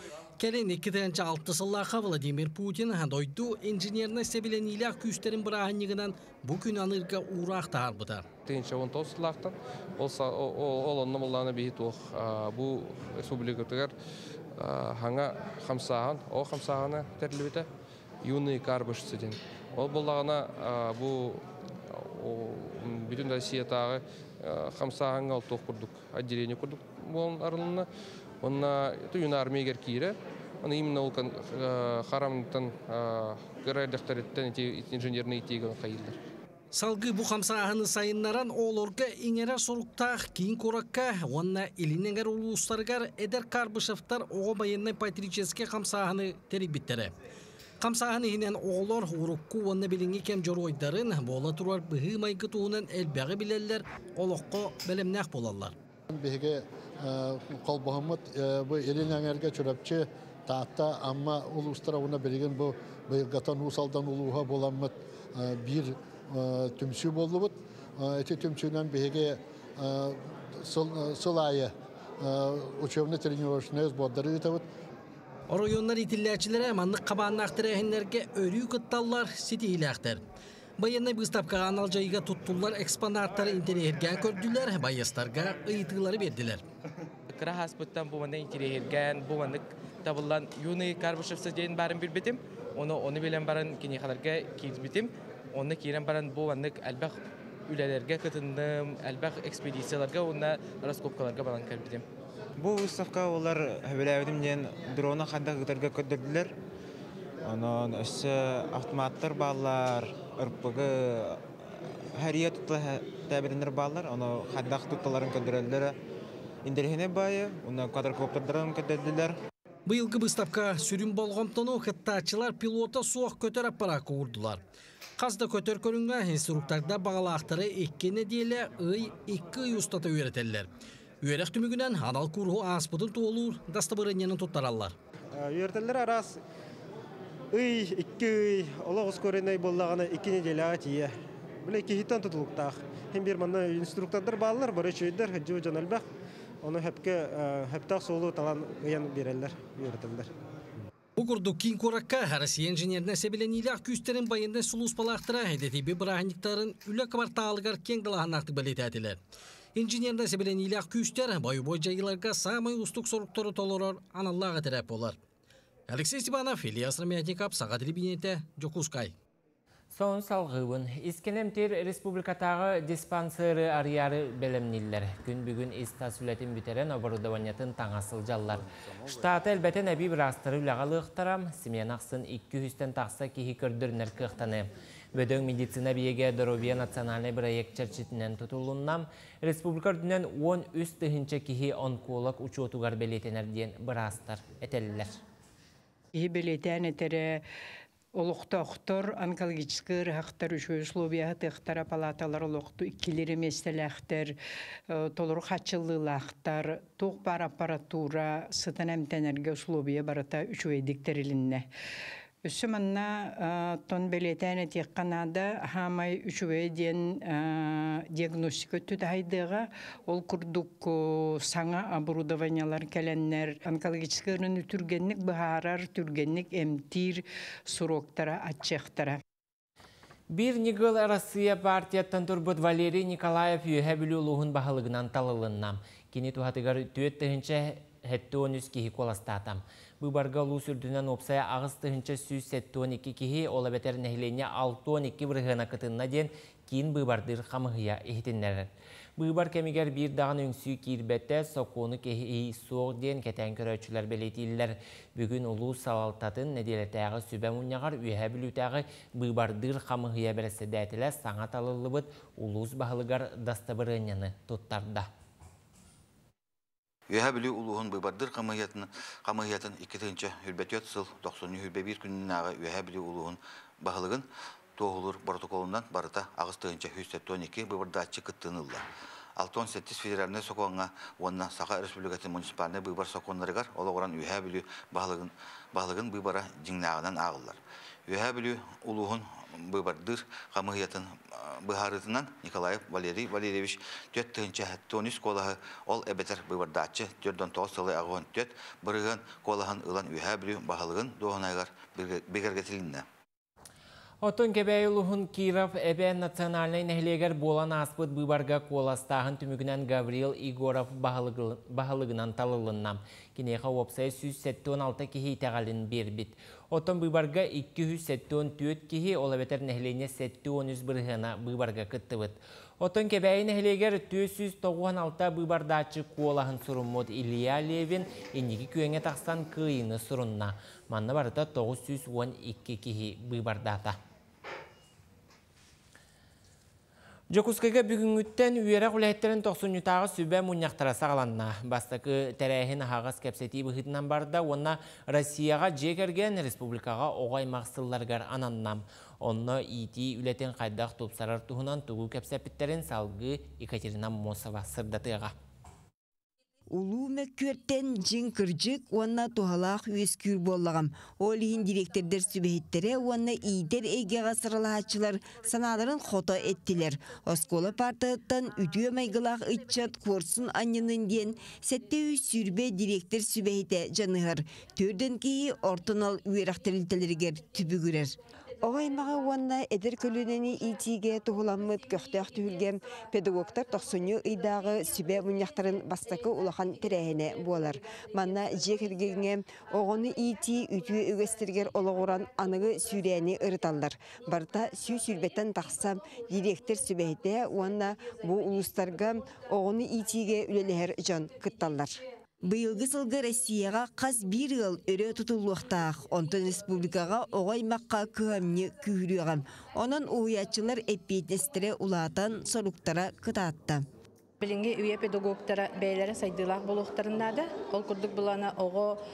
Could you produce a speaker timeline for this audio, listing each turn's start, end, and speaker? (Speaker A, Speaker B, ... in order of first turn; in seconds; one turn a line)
Speaker A: 0.4-8.3
Speaker B: 8.4-13.9
Speaker B: 14.6-17.6
Speaker B: 18.2-27.9
Speaker B: 28.4-36.2
Speaker A: 36.7-47.1
Speaker A: 47.8-55.7
Speaker C: 56.1-74.6
Speaker A: 75.5-80.2
Speaker A: 80.8-86.6
Speaker D: 87.3-102.0
Speaker E: 102.6-106.5
Speaker E: 107.4-116.0
Speaker E: 116.6-119.3
Speaker A: 119.8-124.6
Speaker A: 125.2-130.7
Speaker A: 131.2-134.9
Speaker F: 135.4-136.3
Speaker F: 137.5-141.1
Speaker F: 141.6-146.0
Speaker F: 146.6-150.3
Speaker A: 151.2-159.2
Speaker A: 159.8-165.2
Speaker A: 165.9-169.1
Speaker G: 169.9-195.2
Speaker H: 196.1-197.4
Speaker H: 198.1-204.3
Speaker H: 204.9-211.7
Speaker H: 212.4-229.2
Speaker G: 230.3-265.1
Speaker I: 267.1-274.2
Speaker I: 274.8-278.8
Speaker I: 279.4-303.0
Speaker G: 304.2-334.0
Speaker G: 337.3-355.3
Speaker J: 356.7-413.8
Speaker K: 414.4-419.0